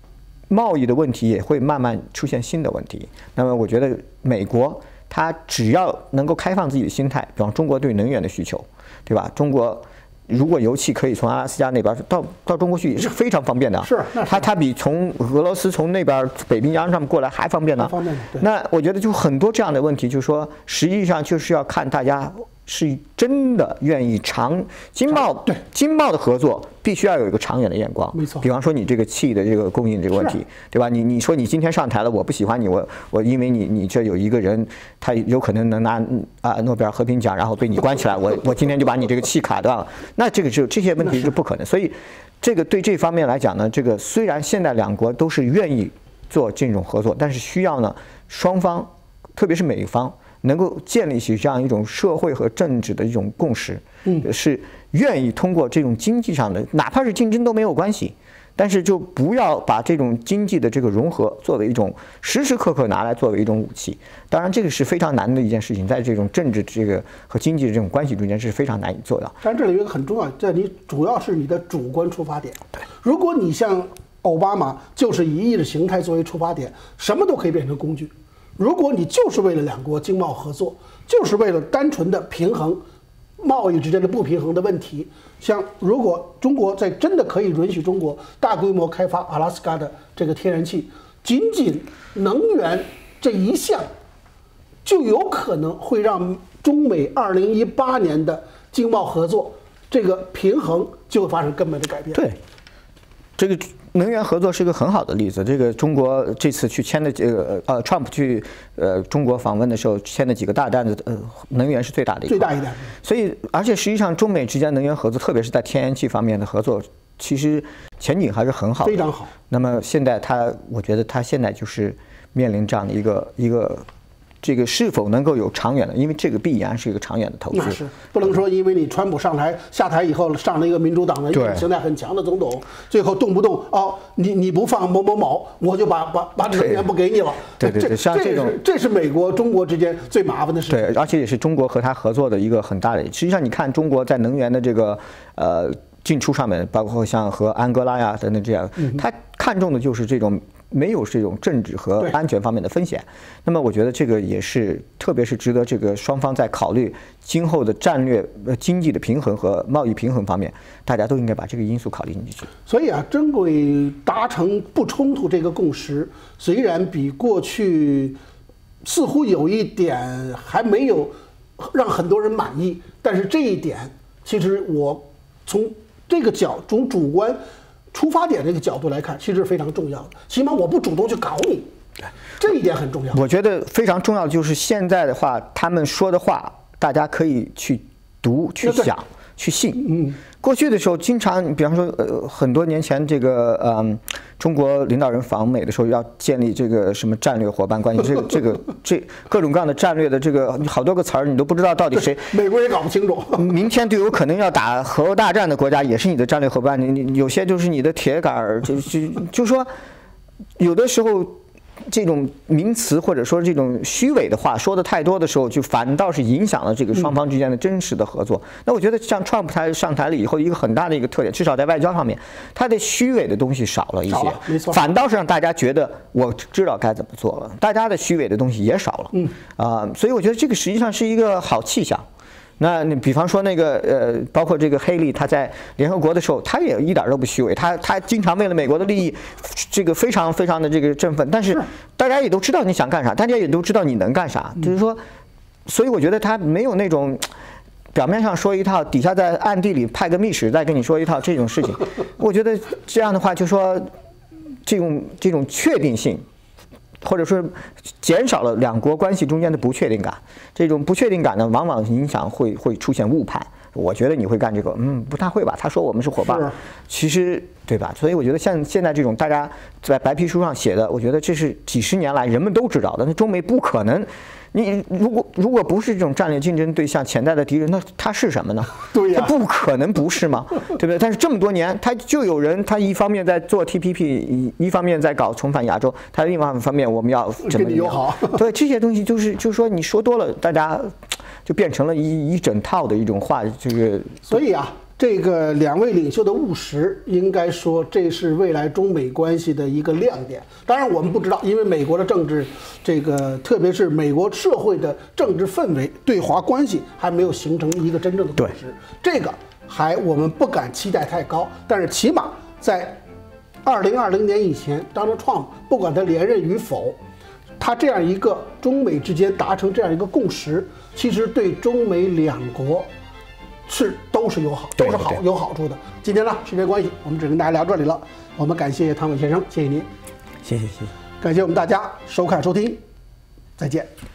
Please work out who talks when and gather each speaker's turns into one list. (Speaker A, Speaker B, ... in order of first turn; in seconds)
Speaker A: 0.5-69.4, 102.1-102.4, 103.4-123.9, 124.4-127.8, 131.3-131.7, 136.5-136.8, 137.6-138.6, 140.7-162.5, 183.1-202.3, 203.3-209.7, 210.6-232.1, 232.6-245.0, 245.7-247.3, 247.9-253.9, 254.7-256.2, 257.0-294.4, 324.8-325.2, 330.4-330.9
Speaker B: 13.8-14.4, 17.8-18.4, 28.1-28.4, 69.4-82.8, 83.4-93.9, 94.8-102.2, 112.3-112.9, 118.8-119.3, 127.5-140.8, 162.7-168.2, 168.8-177.4, 177.9-181.7, 182.4-183.2, 189.8-190.2, 201.9-203.5, 224.1-224.8, 266.2-266.6, 278.9-279.3, 287.4-288.4, 294.3-313.0, 313.6-317.0, 317.6-322.9, 323.7-329.9, 331.2-332.8, 333.6-333.9